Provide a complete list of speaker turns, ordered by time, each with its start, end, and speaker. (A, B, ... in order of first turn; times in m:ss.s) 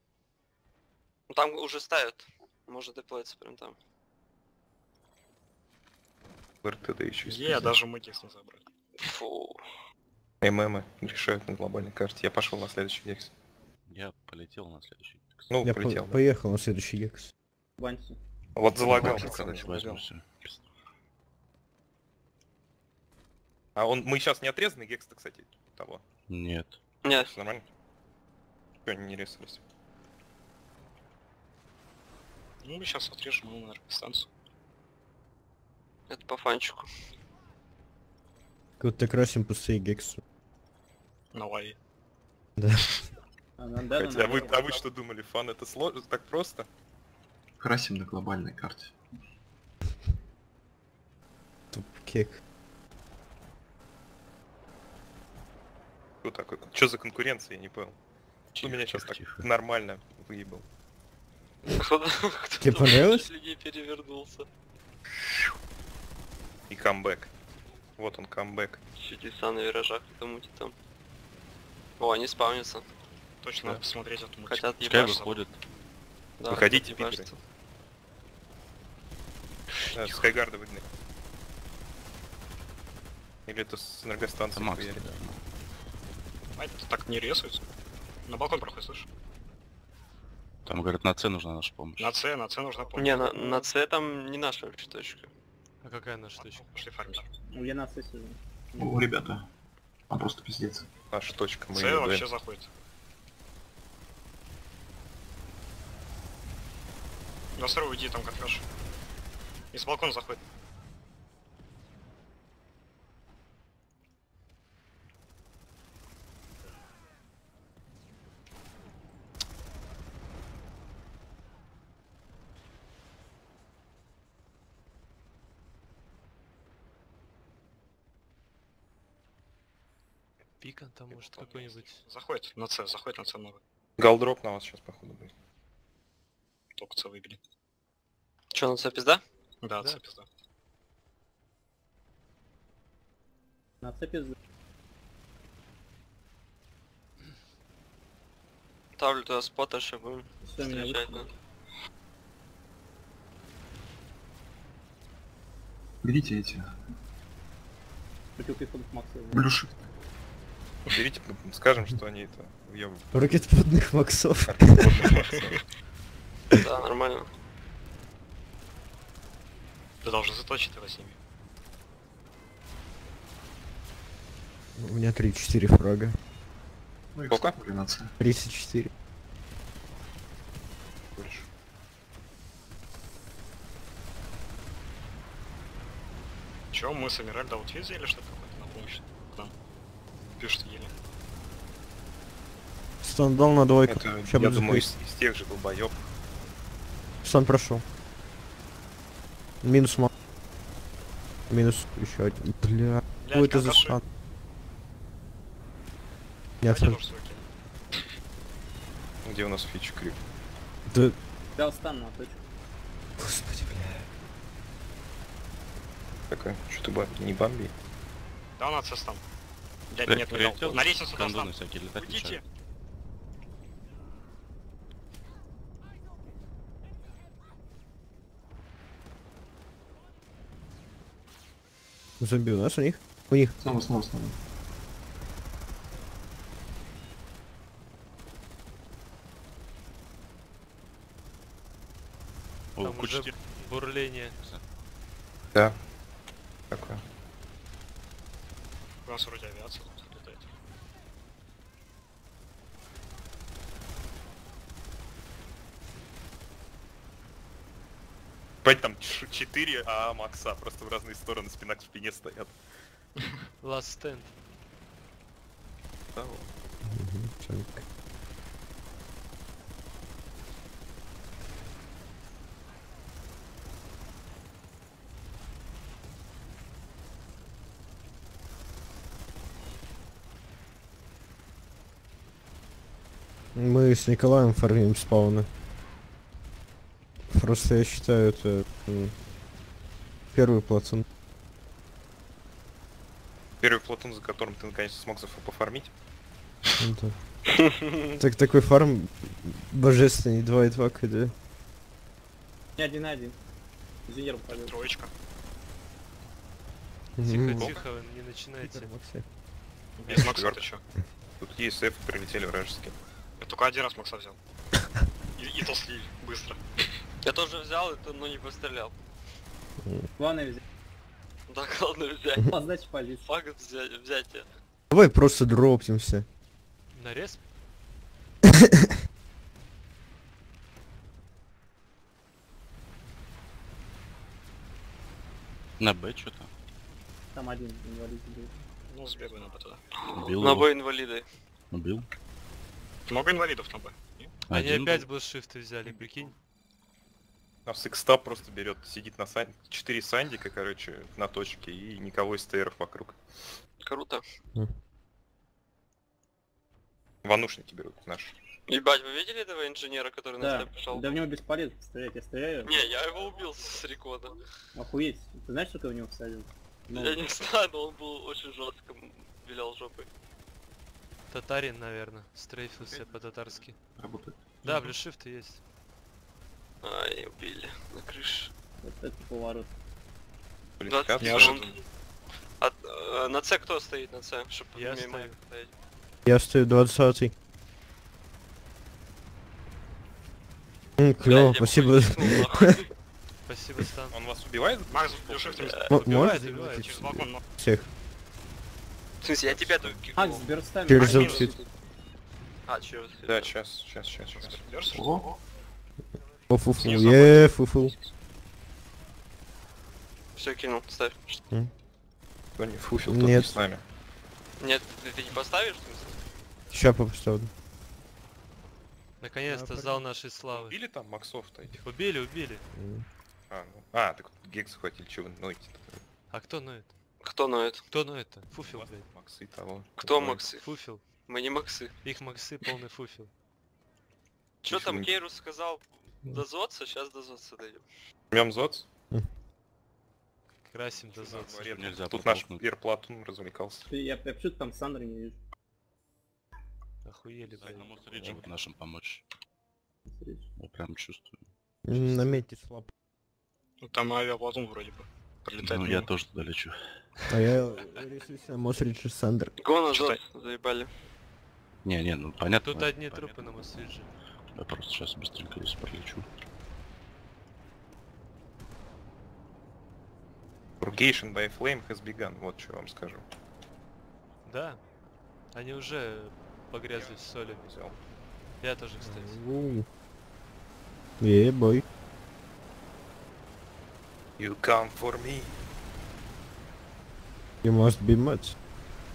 0:01.3-0:03.8 A
0:06.6-0:07.7 B
0:07.2-0:08.6 C
0:09.0-0:09.6 A
0:10.4-0:13.3 B
0:13.9-0:15.5 D
0:15.5-0:16.2 B
0:15.6-0:17.3 E
0:17.8-0:18.2 F
0:18.6-0:20.0 B
0:18.8-0:20.6 D
0:23.8-0:26.0 B
0:26.3-0:26.8 D
0:27.0-0:27.3 A
0:27.1-0:27.6 B
0:28.9-0:29.6 B
0:32.6-0:34.3 C
0:36.1-0:36.9 A
0:38.8-0:40.2 E
0:41.3-0:41.8 C
0:42.6-0:43.0 E
0:43.6-0:44.6 F
0:43.9-0:46.7 B
0:47.6-0:49.0 G
0:51.7-0:52.4 E
0:56.2-0:58.0 B
0:58.5-0:59.4 D
0:58.6-1:00.6 B
1:01.8-1:04.4 A
1:02.6-1:03.3 E
1:06.7-1:07.3 B
1:08.0-1:08.8 B
1:09.0-1:10.7 A
1:12.0-1:12.9 A
1:13.4-1:15.4 C
1:14.4-1:15.2 A
1:14.8-1:15.6 D
1:16.4-1:17.4 A
1:16.5-1:17.3 B
1:19.9-1:20.3 D
1:19.9-1:20.9 B
1:23.5-1:25.0 B
1:24.5-1:25.4 D
1:26.6-1:27.6 C
1:28.3-1:29.1 C
1:30.6-1:32.1 D
1:32.0-1:33.4 C
1:33.0-1:35.3 A
1:35.8-1:36.8 H
1:36.4-1:37.3 C
1:37.5-1:39.0 F
1:38.8-1:39.4 G
1:40.1-1:40.9 G
1:41.1-1:42.3 B
1:41.7-1:42.7 C
1:47.6-1:48.6 C
1:49.7-1:50.4 C
2:10.6-2:12.0 H
2:11.1-2:13.6 C
2:14.0-2:15.3 B
2:16.8-2:17.4 C
2:18.5-2:19.2 A
2:19.6-2:20.2 C
2:23.8-2:24.3 F
2:29.0-2:31.3 A
2:30.4-2:31.3 F
2:36.0-2:36.8 G
2:38.4-2:39.5 F
2:39.3-2:39.8 G
2:40.9-2:43.1 B
2:43.1-2:45.1 E
2:44.4-2:45.6 B
2:45.3-2:45.6 C
2:46.6-2:47.3 A
2:50.0-2:51.2 C
2:54.8-2:56.2 E
2:57.1-2:58.2 G
2:57.3-2:57.6 B
2:58.2-2:58.9 E
3:01.1-3:01.5 B
3:06.7-3:09.5 C
3:10.4-3:10.9 C
3:13.0-3:14.9 E
3:13.9-3:16.0 B
3:17.2-3:17.8 E
3:19.6-3:20.1 E
3:21.5-3:24.0 E
3:23.2-3:24.0 C
3:26.6-3:27.0 E
3:26.6-3:28.0 C
3:29.2-3:30.2 B
3:30.9-3:31.1 E
3:31.6-3:32.5 F
3:33.2-3:34.1 E
3:36.3-3:37.7 B
3:38.6-3:39.2 C
3:39.9-3:42.4 C
3:40.1-3:42.4 D
3:52.2-3:53.6 E
3:53.6-3:54.4 G
4:02.8-4:03.7 D
4:02.8-4:04.4 H
4:04.4-4:04.6 D
4:06.7-4:07.0 B
4:09.0-4:10.5 C
4:18.6-4:22.6 B
4:23.6-4:24.3 H
4:26.1-4:26.5 B
4:26.8-4:27.8 E
4:43.5-4:45.5 E
4:47.3-4:49.1 E
4:50.3-4:51.0 E
4:53.6-4:55.9 B
4:56.8-4:57.1 E
4:57.5-4:58.2 A
4:58.2-5:01.3 E
5:02.8-5:03.4 F
5:04.1-5:04.8 F
5:04.5-5:05.1 C
5:07.2-5:07.8 E
5:07.2-5:08.9 H
5:07.4-5:07.9 B
5:08.6-5:09.2 E
5:10.0-5:10.8 C
5:10.1-5:10.7 B
5:11.4-5:13.0 B
5:13.4-5:14.4 C
5:15.4-5:16.6 C
5:17.2-5:18.9 A
5:19.8-5:20.1 E
5:20.2-5:20.6 F
5:21.5-5:22.6 A
5:22.5-5:23.2 F
5:23.2-5:24.5 A
5:24.9-5:26.2 E
5:26.9-5:27.4 H
5:28.6-5:28.9 E
5:35.8-5:36.5 D
5:37.3-5:38.6 F
5:38.9-5:39.8 C
5:40.1-5:41.2 A
5:40.1-5:40.7 D
5:41.7-5:42.0 D
5:43.1-5:44.3 C
5:44.5-5:45.1 D
5:44.5-5:46.3 H
5:47.6-5:53.2 B
5:53.8-5:54.2 A
5:57.2-5:58.4 B
5:58.7-6:01.1 A
6:00.4-6:02.9 F
6:02.6-6:04.4 A
6:04.7-6:07.2 F
6:06.9-6:10.1 A
6:11.3-6:13.8 H
6:12.8-6:13.6 D
6:14.0-6:14.8 G
6:14.6-6:15.6 H
6:16.8-6:18.5 A
6:18.8-6:19.7 F
6:20.8-6:21.8 B
6:20.8-6:21.8 A
6:21.2-6:21.6 C
6:22.6-6:25.7 A
6:24.7-6:25.4 H
6:26.2-6:27.3 E
6:31.0-6:32.8 E
6:31.2-6:32.9 A
6:33.5-6:34.1 H
6:34.1-6:35.8 B
6:34.9-6:37.4 C
6:35.7-6:36.1 A
6:35.9-6:37.9 E
6:36.0-6:36.9 H
6:39.2-6:40.4 A
6:39.4-6:40.0 B
6:40.2-6:41.6 F
6:40.9-6:41.6 E
6:41.0-6:41.5 C
6:42.6-6:43.5 A
6:43.2-6:44.6 B
6:44.3-6:45.4 C
6:44.9-6:45.3 G
6:46.5-6:47.9 E
6:46.8-6:48.0 C
6:50.4-6:51.4 A
6:52.6-6:53.8 B
6:53.0-6:53.6 E
6:54.6-6:56.2 A
6:56.7-6:57.5 E
6:59.2-7:00.8 H
6:59.5-7:00.0 E
7:00.4-7:01.8 B
7:01.8-7:02.6 H
7:02.7-7:03.0 E
7:03.5-7:06.0 B
7:06.3-7:06.9 H
7:07.2-7:07.9 A
7:07.9-7:09.1 H
7:08.6-7:10.4 B
7:10.0-7:10.6 A
7:10.6-7:11.0 H
7:11.2-7:11.9 A
7:12.0-7:13.3 H
7:14.6-7:17.8 A
7:14.7-7:15.1 B
7:18.3-7:18.9 B
7:20.7-7:21.7 H
7:20.9-7:23.9 B
7:21.3-7:22.6 D
7:23.9-7:25.4 F
7:27.0-7:28.0 H
7:27.5-7:29.2 D
7:27.6-7:28.5 B
7:30.1-7:30.5 F
7:30.6-7:32.4 D
7:31.9-7:32.9 E
7:33.8-7:36.1 C
7:35.6-7:36.8 D
7:37.3-7:39.5 E
7:39.6-7:40.9 A
7:39.9-7:40.2 C
7:41.8-7:43.5 D
7:42.6-7:44.1 H
7:44.6-7:46.2 D
7:50.8-7:53.2 B
7:54.4-7:54.8 H
7:55.5-7:57.7 H
7:56.9-7:58.0 B
7:58.6-7:59.4 H
7:59.0-7:59.8 E
8:01.2-8:01.8 E
8:04.4-8:05.5 B
8:07.6-8:08.5 E